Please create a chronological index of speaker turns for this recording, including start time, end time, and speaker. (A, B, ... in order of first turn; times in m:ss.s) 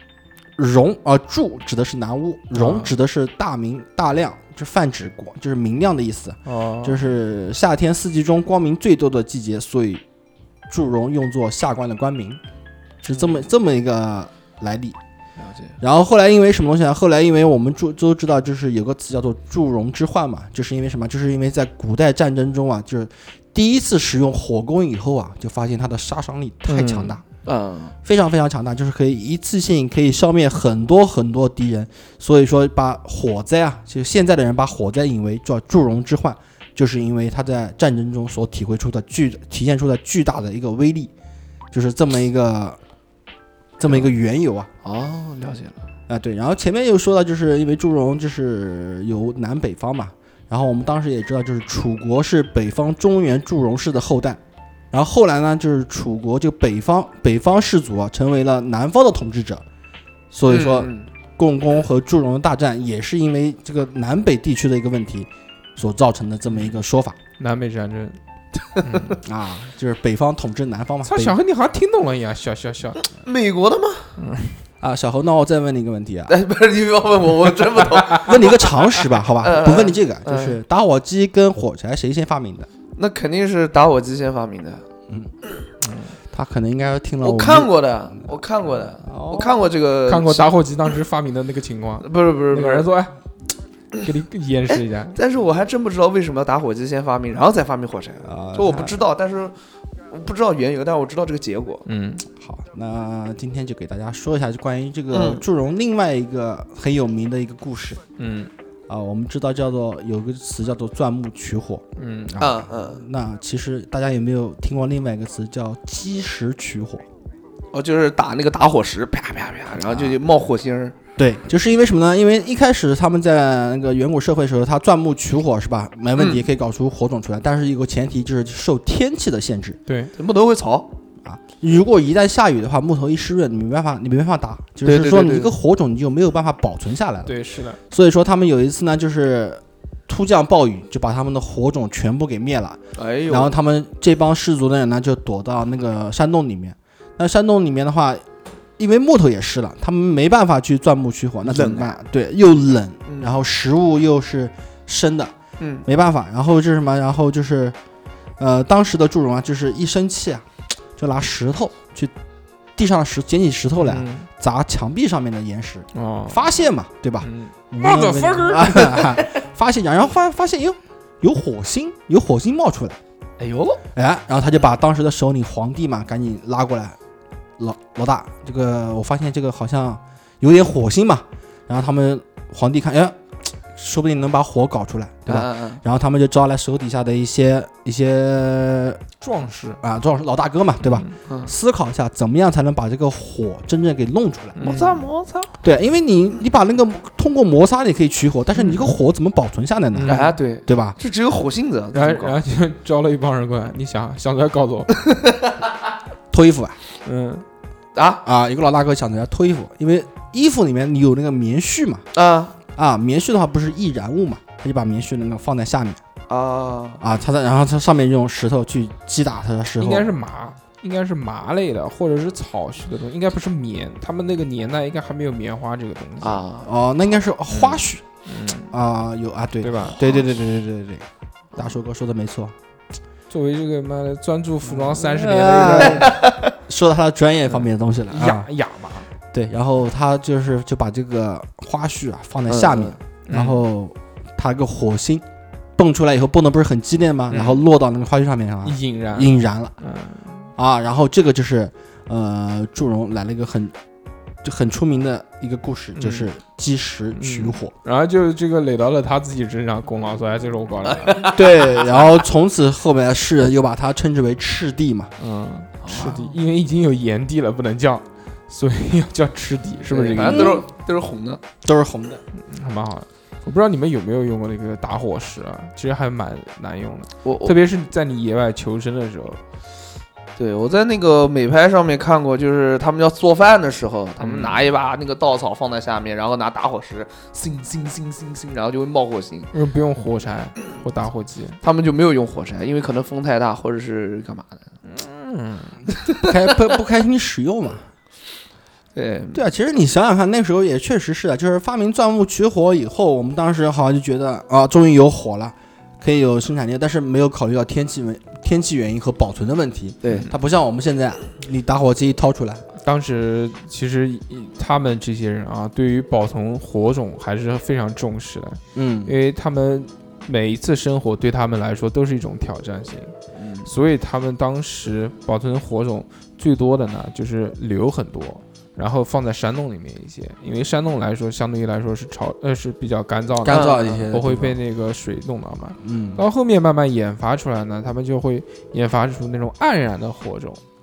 0:00.6-0:10.0 A
0:02.5-0:03.0 B
0:06.4-0:07.1 B
0:10.7-0:12.4 A
0:13.0-0:15.0 A
0:13.1-0:13.5 C
0:15.4-0:15.8 C
0:15.8-0:27.2 A
0:26.7-0:27.2 B
0:27.4-0:28.0 C
0:28.0-0:41.1 A
0:41.7-0:42.8 A
0:43.8-0:44.7 A
0:44.8-0:45.8 C
0:46.1-0:54.4 A
0:54.9-0:59.6 A
1:00.3-1:07.2 A
1:00.4-1:01.1 C
1:07.4-1:08.2 B
1:08.8-1:09.2 B
1:08.8-1:09.1 C
1:09.2-1:11.4 A
1:11.0-1:13.0 B
1:13.0-1:14.1 C
1:14.2-1:14.6 B
1:14.8-1:16.4 A
1:16.3-1:20.6 C
1:18.1-1:22.7 A
1:23.0-1:24.8 C
1:25.8-1:26.2 B
1:26.3-1:28.3 A
1:27.2-1:30.5 C
1:29.0-1:29.6 A
1:30.1-1:33.1 B
1:32.0-1:32.9 C
1:34.0-1:35.2 B
1:34.7-1:39.5 C
1:38.2-1:39.0 A
1:40.1-1:41.8 C
1:41.9-1:42.2 B
1:42.4-1:48.0 A
1:45.1-1:45.4 C
1:48.2-1:48.5 B
1:48.9-1:57.0 A
1:52.0-1:52.4 B
1:52.4-1:53.0 C
1:57.7-2:01.0 C
1:59.8-2:00.2 A
2:01.2-2:09.8 A
2:06.2-2:06.5 C
2:09.9-2:10.1 B
2:10.2-2:10.9 C
2:11.2-2:17.3 A
2:14.8-2:15.6 C
2:17.3-2:17.8 B
2:17.9-2:28.2 A
2:23.0-2:23.6 C
2:28.8-2:35.3 A
2:31.4-2:31.9 C
2:33.1-2:33.4 C
2:35.6-2:35.9 C
2:35.8-2:37.8 A
2:38.4-2:40.5 A
2:41.0-2:42.1 A
2:42.8-2:53.0 A
2:43.8-2:44.3 B
2:45.9-2:46.4 B
2:47.2-2:49.2 B
2:53.4-2:53.8 C
2:54.0-2:57.0 A
2:57.6-3:09.0 A
3:05.3-3:05.8 C
3:09.2-3:09.8 B
3:09.8-3:14.7 A
3:10.8-3:11.1 B
3:11.3-3:11.5 C
3:14.6-3:15.1 B
3:14.6-3:15.5 C
3:15.6-3:21.0 A
3:19.9-3:20.4 B
3:20.1-3:22.4 C
3:21.9-3:25.0 B
3:25.1-3:25.6 C
3:26.3-3:26.8 A
3:27.0-3:27.4 B
3:28.0-3:28.2 C
3:28.2-3:32.1 A
3:32.1-3:32.6 C
3:32.8-3:36.0 A
3:36.3-3:37.0 C
3:37.0-3:40.1 A
3:39.8-3:46.4 B
3:46.2-3:46.7 C
3:46.6-3:52.5 A
3:47.5-3:48.8 B
3:49.6-3:50.1 B
3:50.0-3:50.3 C
3:53.3-3:56.1 B
3:54.8-3:58.5 A
3:55.8-3:56.4 C
3:57.5-3:59.1 B
3:59.3-4:05.2 A
4:02.5-4:03.0 C
4:03.3-4:03.6 B
4:05.8-4:09.8 A
4:07.3-4:07.6 B
4:08.6-4:10.5 B
4:10.6-4:13.7 A
4:14.4-4:17.7 A
4:16.0-4:16.3 B
4:17.1-4:21.4 B
4:20.9-4:22.1 C
4:21.2-4:25.1 A
4:25.2-4:30.6 B
4:25.8-4:26.3 C
4:29.9-4:31.4 C
4:30.2-4:30.7 A
4:31.6-4:32.2 A
4:32.3-4:39.4 B
4:37.2-4:37.6 C
4:40.4-4:49.5 C
4:44.2-4:44.6 B
4:49.5-4:51.6 B
4:51.6-4:54.6 C
4:54.8-4:55.8 B
4:56.2-4:57.9 A
4:59.0-4:59.4 C
4:59.3-5:12.6 A
5:10.0-5:10.3 C
5:12.8-5:23.1 B
5:18.8-5:19.2 A
5:23.4-5:23.7 C
5:23.7-5:40.6 B
5:33.4-5:34.6 A
5:33.4-5:34.1 C
5:35.8-5:36.2 A